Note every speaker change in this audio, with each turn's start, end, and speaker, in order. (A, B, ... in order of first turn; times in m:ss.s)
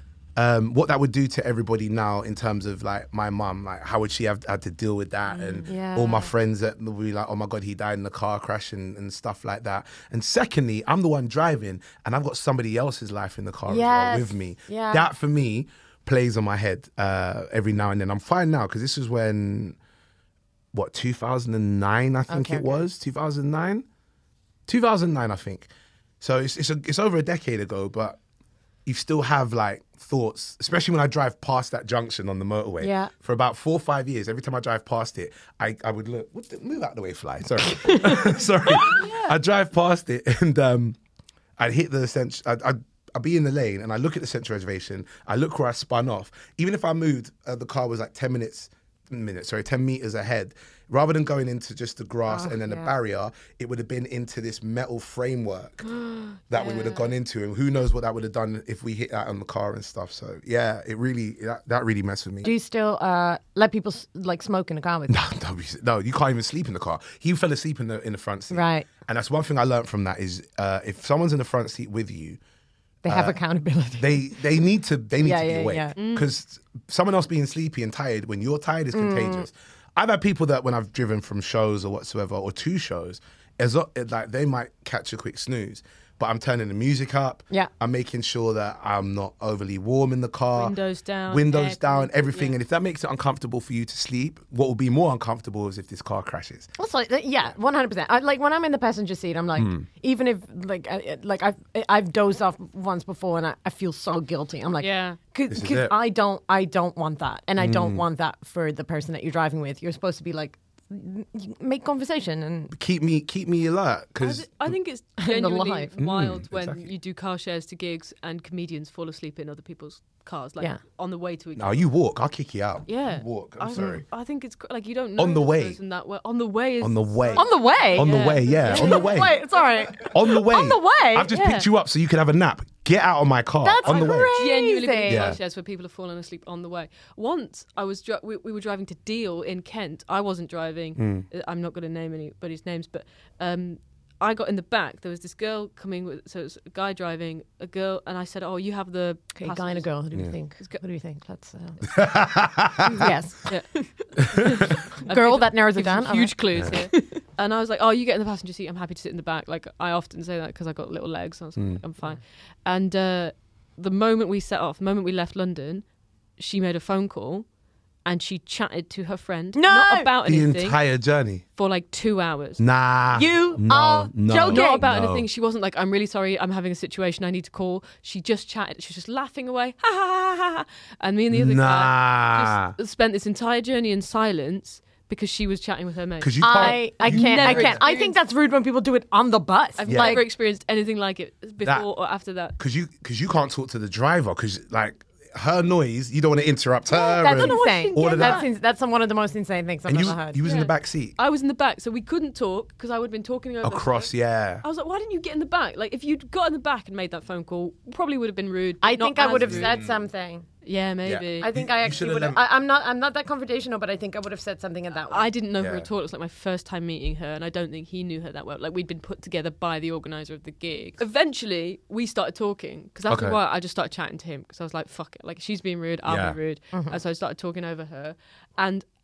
0:00.4-0:19.8 A
0:05.3-0:05.6 B
0:05.6-0:06.3 C
0:13.6-0:15.1 C
0:20.7-0:23.8 A
0:22.3-0:22.9 C
0:24.7-0:25.7 A
0:26.2-0:28.2 A
0:28.8-0:41.0 A
0:32.8-0:33.1 C
0:38.8-0:39.3 B
0:41.6-0:55.9 A
0:52.3-0:52.9 C
0:55.8-0:57.1 B
0:56.5-1:02.5 A
1:02.4-1:05.2 C
1:05.1-1:12.4 A
1:08.5-1:08.9 C
1:13.0-1:14.6 C
1:13.0-1:13.4 A
1:14.0-1:30.8 A
1:15.2-1:16.0 C
1:16.0-1:16.3 B
1:18.9-1:19.5 C
1:30.5-1:32.6 B
1:31.3-1:36.7 A
1:36.8-1:52.7 C
1:39.6-1:39.8 A
1:44.8-1:45.2 B
1:45.5-1:45.9 A
1:47.6-1:48.0 A
1:52.7-1:54.8 A
1:54.2-2:01.8 B
1:55.2-1:55.9 C
1:56.0-1:56.9 A
2:01.6-2:04.0 A
2:02.8-2:09.3 B
2:05.2-2:05.8 A
2:06.8-2:09.4 A
2:07.3-2:11.3 C
2:10.0-2:14.4 A
2:11.3-2:11.7 B
2:13.6-2:15.4 C
2:13.8-2:30.0 B
2:15.0-2:15.4 A
2:21.0-2:21.3 A
2:29.4-2:31.8 C
2:31.8-2:33.0 A
2:32.8-2:45.8 B
2:32.9-2:34.4 C
2:34.3-2:34.6 A
2:35.1-2:36.4 C
2:36.5-2:36.8 A
2:41.6-2:41.8 A
2:46.4-2:47.4 B
2:48.0-2:50.8 B
2:49.5-2:50.1 C
2:50.2-2:51.4 A
2:51.6-2:52.6 B
2:52.6-2:55.2 A
2:53.1-2:54.8 C
2:54.4-3:08.2 B
3:01.3-3:02.7 A
3:06.2-3:07.8 A
3:06.4-3:10.2 C
3:09.8-3:12.6 B
3:09.9-3:10.2 A
3:12.6-3:18.4 A
3:16.9-3:20.4 C
3:17.0-3:18.5 B
3:19.9-3:21.1 A
3:20.4-3:29.8 B
3:23.6-3:24.6 A
3:28.8-3:30.5 C
3:29.3-3:30.0 A
3:30.6-3:31.5 B
3:31.0-3:32.4 A
3:31.4-3:35.3 C
3:35.1-3:48.8 B
3:35.6-3:35.9 A
3:43.1-3:43.4 A
3:46.0-3:46.4 A
3:46.7-3:47.0 C